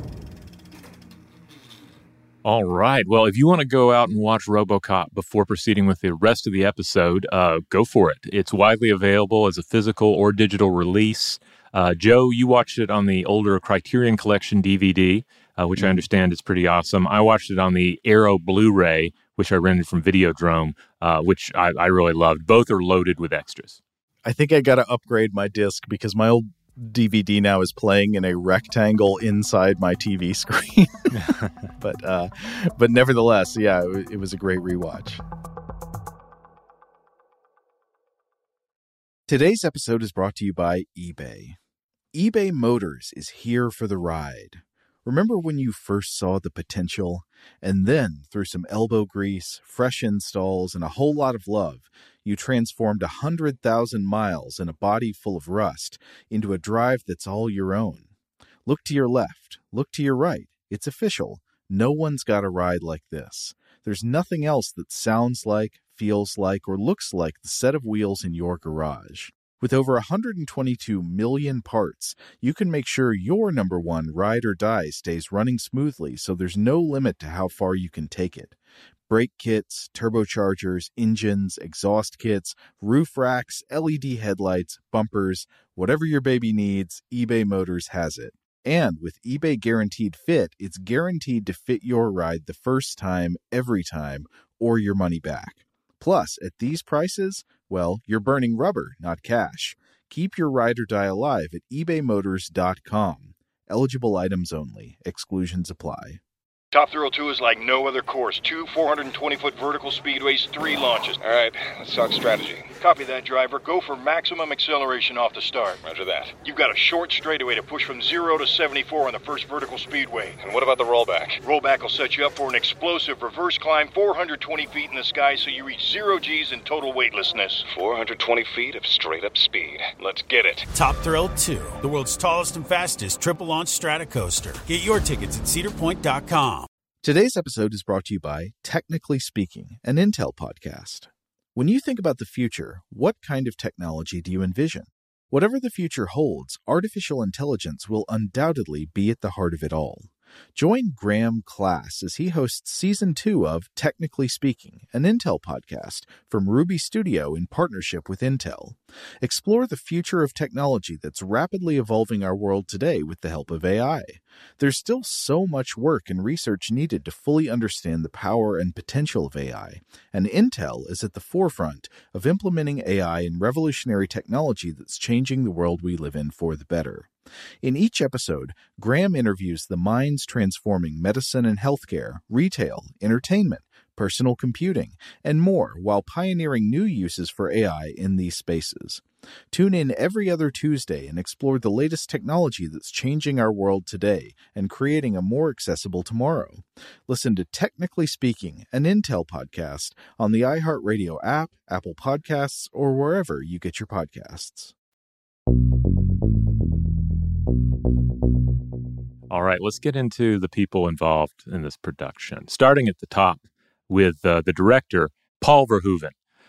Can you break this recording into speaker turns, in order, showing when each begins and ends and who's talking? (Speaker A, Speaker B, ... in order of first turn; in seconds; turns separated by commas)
Speaker A: 2.4-23.8, Speaker B: 15.8-16.0, Speaker B: 24.2-31.1, Speaker A: 31.1-31.5, Speaker B: 31.8-35.2, Speaker B: 39.3-41.6, Speaker B: 42.1-58.0, Speaker B: 58.6-78.5, Speaker B: 79.1-106.2, Speaker C: 106.7-111.2, Speaker D: 111.2-112.7, Speaker C: 112.8-115.8, Speaker D: 115.8-116.4, Speaker C: 116.4-120.4, Speaker D: 120.4-121.4, Speaker C: 121.4-127.7, Speaker D: 127.7-130.7, Speaker E: 130.7-136.7, Speaker B: 137.0-177.1, Speaker B: 177.6-204.7, Speaker A: 209.3-216.1